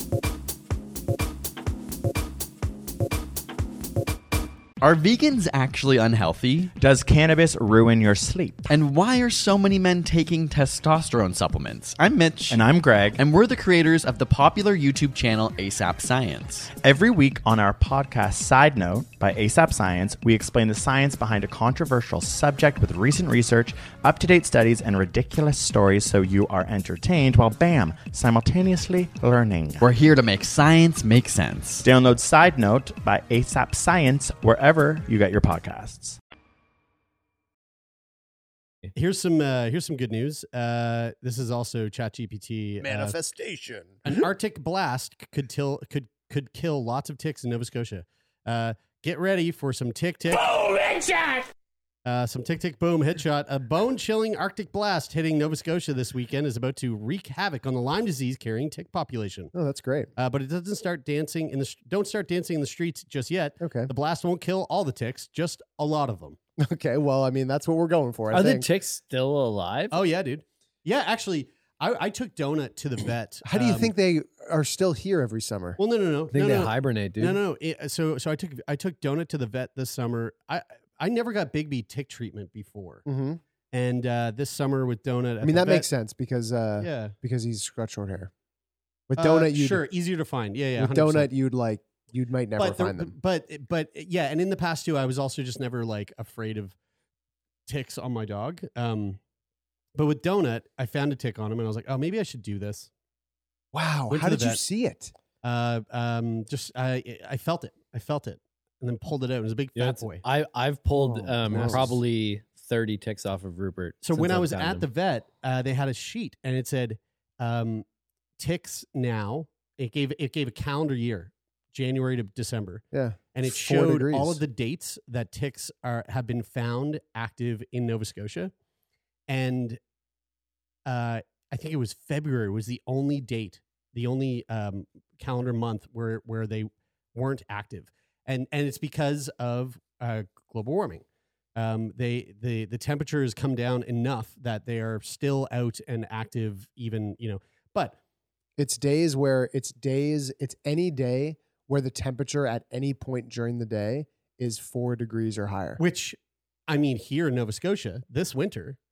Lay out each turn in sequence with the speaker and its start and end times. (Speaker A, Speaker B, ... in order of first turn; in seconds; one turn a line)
Speaker A: 4.8-6.7
Speaker B: 6.8-8.7
Speaker A: 8.7-12.6
Speaker B: 12.5-13.2
Speaker A: 13.1-16.7
Speaker B: 16.7-29.9
Speaker A: 29.8-31.9
Speaker B: 31.8-36.2
Speaker C: 38.9-43.2
Speaker D: 42.8-44.2
Speaker C: 44.1-50.5
Speaker C: 52.0-59.5
Speaker D: 59.5-60.1
Speaker C: 60.2-66.4
Speaker D: 63.6-63.9
Speaker D: 66.6-68.7
Speaker E: 68.3-70.0
Speaker C: 69.9-73.9
Speaker D: 73.5-75.8
Speaker C: 75.8-83.0
Speaker E: 76.3-77.4
Speaker D: 83.1-83.4
Speaker C: 83.7-85.9
Speaker D: 85.4-88.3
Speaker C: 86.8-87.2
Speaker D: 89.1-89.8
Speaker C: 89.2-91.3
Speaker D: 90.8-93.1
Speaker C: 92.6-96.8
Speaker C: 97.7-99.2
Speaker C: 100.0-102.9
Speaker D: 103.7-105.1
Speaker C: 104.1-104.6
Speaker C: 105.4-110.2
Speaker E: 109.8-114.8
Speaker D: 111.0-111.8
Speaker C: 111.5-112.0
Speaker C: 114.0-117.8
Speaker C: 118.4-128.5
Speaker D: 122.9-124.4
Speaker C: 129.3-129.8
Speaker C: 130.9-141.0
Speaker C: 141.6-148.0
Speaker D: 148.6-155.8
Speaker C: 155.8-156.2
Speaker C: 156.7-158.8